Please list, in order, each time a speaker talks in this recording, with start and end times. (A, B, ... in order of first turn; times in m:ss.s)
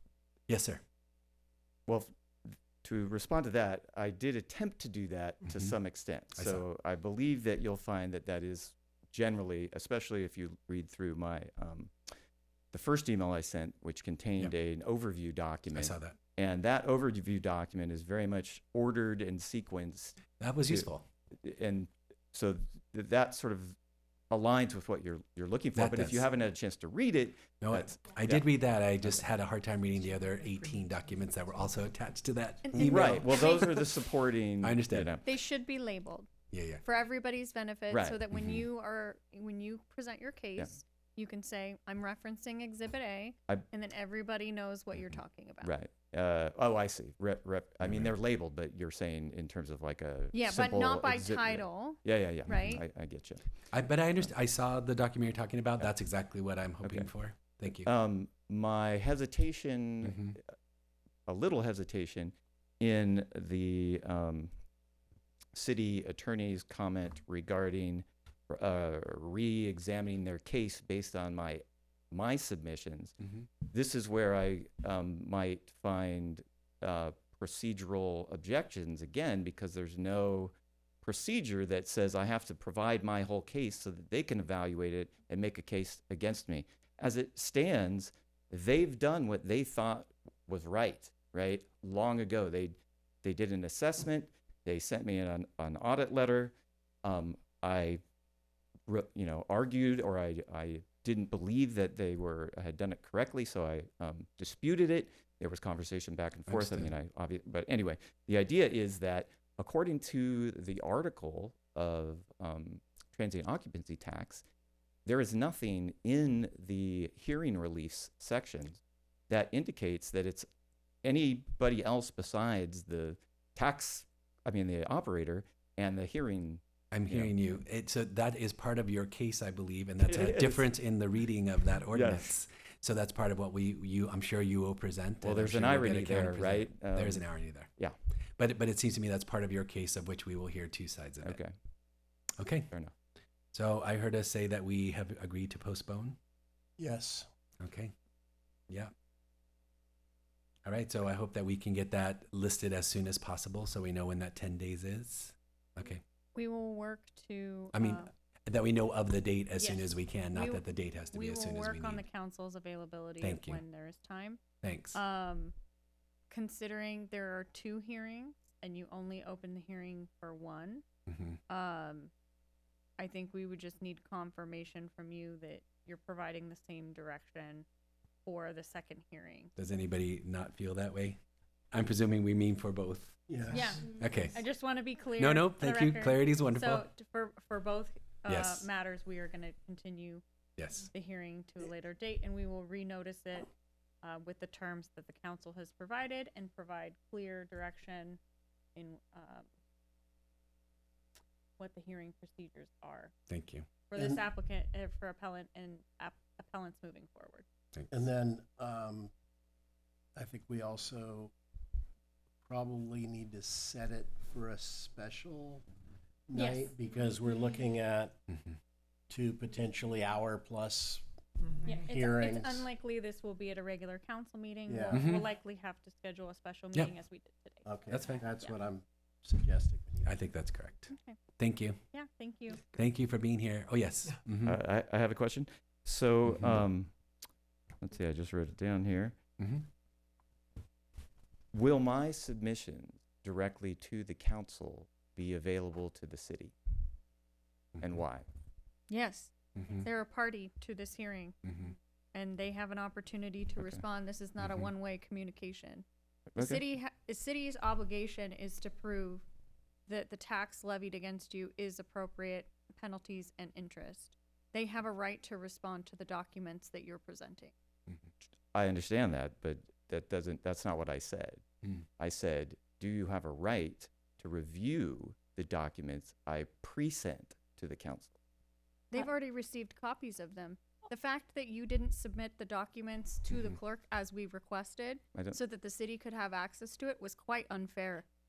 0:00.5-0:00.8 A
0:01.9-0:11.9 B
0:05.5-0:05.8 A
0:06.3-0:06.6 A
0:12.7-0:20.9 B
0:15.7-0:16.2 A
0:20.4-0:21.0 A
0:21.4-0:23.8 B
0:24.3-0:28.5 B
0:25.7-0:26.3 A
0:27.6-0:33.7 A
0:32.6-0:33.9 C
0:32.7-0:35.2 B
0:34.6-0:35.1 A
0:35.2-0:36.3 C
0:36.5-0:36.8 A
0:36.8-0:45.7 C
0:37.9-0:38.2 B
0:38.3-0:38.6 A
0:45.6-0:53.4 B
0:47.8-0:48.1 A
0:50.3-0:52.8 C
0:52.5-0:52.8 A
0:53.7-0:57.9 A
0:56.8-0:57.1 B
0:57.7-1:00.4 B
1:00.0-1:00.4 A
1:01.3-1:04.5 B
1:05.5-1:13.2 B
1:13.7-1:36.5 B
1:37.0-1:38.0 B
1:38.9-1:54.4 B
1:46.5-1:46.9 A
1:55.0-2:00.5 B
2:01.0-2:07.3 B
2:06.9-2:17.7 A
2:10.0-2:10.7 B
2:11.9-2:12.4 B
2:15.2-2:17.2 B
2:18.4-2:21.4 A
2:21.2-2:21.5 B
2:22.4-2:22.7 A
2:23.5-2:26.2 A
2:26.8-2:27.3 D
2:27.6-2:27.9 A
2:30.6-2:36.0 A
2:36.3-2:38.1 C
2:37.7-2:42.0 A
2:39.6-2:44.4 C
2:43.2-2:43.6 A
2:44.6-2:45.0 A
2:44.9-2:45.5 C
2:46.3-2:50.8 C
2:51.1-2:51.4 A
2:51.5-2:52.1 C
2:53.0-2:57.6 C
2:58.2-2:59.5 C
2:59.6-3:01.2 A
3:01.7-3:03.2 A
3:03.3-3:03.8 D
3:03.5-3:10.2 C
3:03.8-3:04.4 A
3:05.2-3:06.9 A
3:08.2-3:08.7 A
3:10.6-3:10.9 A
3:10.9-3:13.5 C
3:14.0-3:18.2 C
3:18.7-3:19.5 C
3:21.6-3:23.1 C
3:23.3-3:23.7 A
3:23.9-3:27.4 C
3:24.0-3:24.2 D
3:27.7-3:28.0 A
3:27.9-3:29.1 D
3:30.1-3:31.3 D
3:32.4-3:35.6 D
3:36.3-3:38.2 D
3:36.3-3:36.7 C
3:38.3-3:38.6 A
3:39.1-3:41.0 D
3:41.6-3:48.6 C
3:41.7-3:42.7 D
3:44.7-3:45.1 D
3:44.9-3:45.3 A
3:47.6-3:50.1 D
3:47.9-3:48.2 A
3:50.0-3:51.8 A
3:50.9-3:51.2 C
3:51.9-3:52.6 C
3:52.7-3:54.6 A
3:54.4-3:56.9 B
3:56.2-3:56.6 A
3:57.8-3:59.2 B
3:59.4-3:59.6 A
4:01.5-4:06.5 B
4:07.8-4:08.2 B
4:08.9-4:11.4 C
4:09.6-4:09.9 A
4:11.4-4:11.7 A
4:12.1-4:15.8 C
4:14.4-4:14.7 A
4:16.3-4:16.6 B
4:16.4-4:19.2 C
4:19.9-4:27.5 C
4:28.5-4:31.4 B
4:32.0-4:38.2 B
4:38.9-4:48.0 C